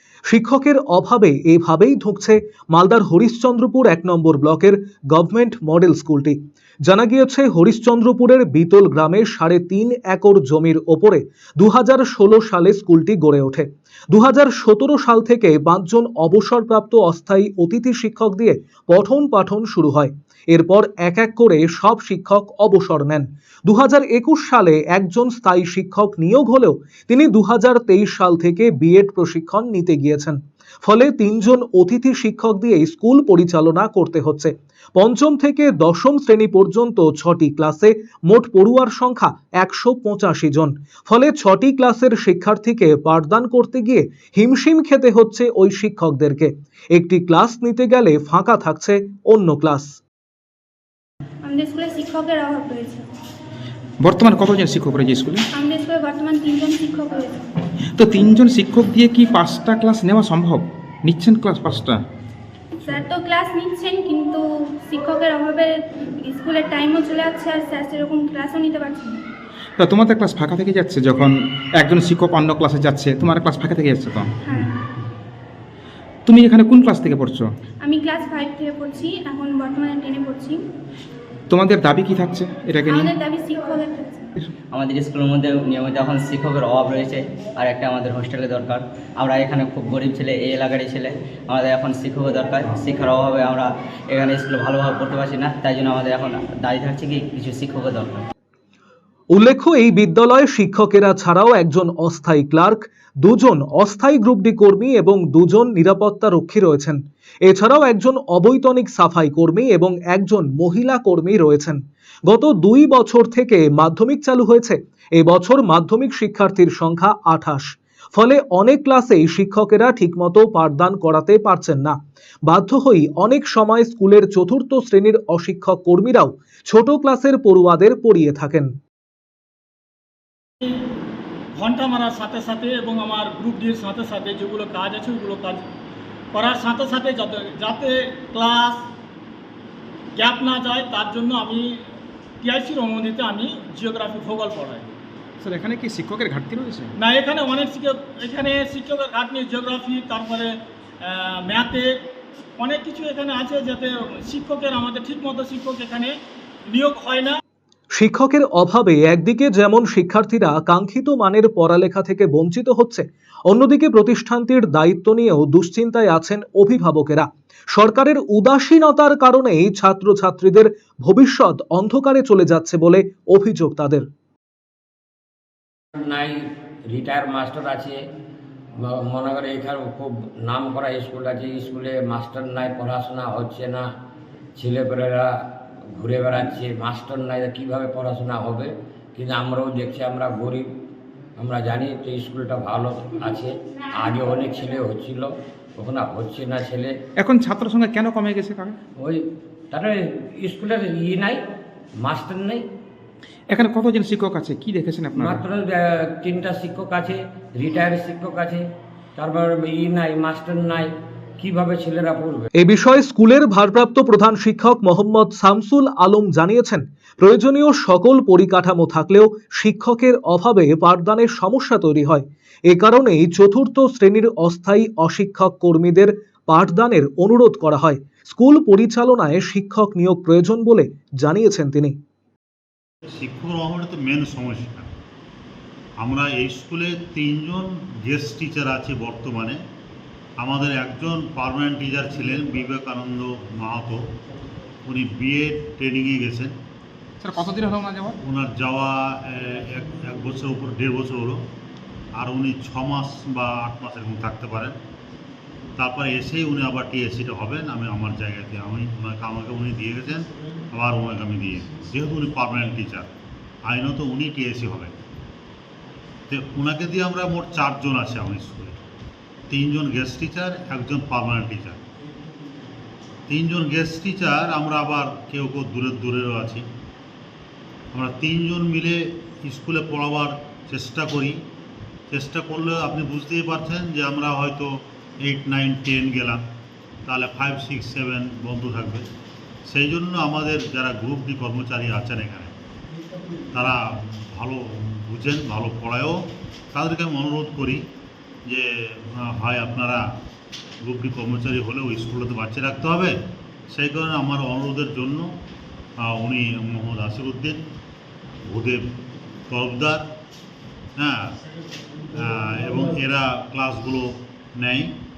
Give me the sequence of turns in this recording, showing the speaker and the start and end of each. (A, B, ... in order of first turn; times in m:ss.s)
0:00.3-0:50.0 A
0:51.4-0:53.0 B
0:54.0-0:55.4 C
0:55.5-0:57.4 B
0:58.0-1:02.0 C
1:02.8-1:09.2 B
1:09.8-1:14.4 C
1:14.4-1:14.8 B
1:16.3-1:17.4 C
1:17.8-1:20.6 B
1:21.5-1:23.1 C
1:22.9-1:24.3 B
1:24.7-1:38.3 D
1:39.3-2:08.7 A
2:11.6-2:15.6 E
2:16.3-2:18.9 E
2:20.2-2:21.8 E
2:22.4-2:24.9 E
2:25.4-2:26.9 C
2:27.0-2:32.0 E
2:32.6-2:36.1 E
2:36.7-2:37.4 E
2:38.0-2:54.0 A
2:56.0-2:58.0 F
2:58.8-3:03.9 F
3:04.6-3:05.3 F
3:05.9-3:10.7 F
3:11.4-3:16.9 F
3:17.2-3:18.8 C
3:19.0-3:21.4 F
3:22.0-3:22.7 F
3:23.5-3:25.4 C
3:25.2-3:28.6 F
3:29.2-3:32.5 F
3:32.6-3:52.0 A
3:53.2-3:54.9 G
3:56.0-3:59.6 G
4:00.4-4:04.0 G
4:04.9-4:06.5 G
4:07.2-4:08.2 C
4:08.2-4:11.4 G
4:12.2-4:14.8 G
4:15.8-4:23.1 G
4:23.7-4:25.0 G
4:26.3-4:28.8 G
4:29.5-4:31.8 G
4:33.3-4:36.6 G
4:37.9-4:41.4 G
4:42.1-4:44.7 G
4:45.2-4:46.4 G
4:47.1-4:49.1 G
4:49.7-4:52.5 G
4:53.5-4:56.2 G
4:56.7-4:57.8 G
4:58.5-5:00.0 G
5:00.8-5:03.2 G
5:03.7-5:05.3 G
5:06.0-5:07.6 G
5:08.5-5:08.8 G
5:09.5-5:10.0 G
5:12.2-5:14.9 G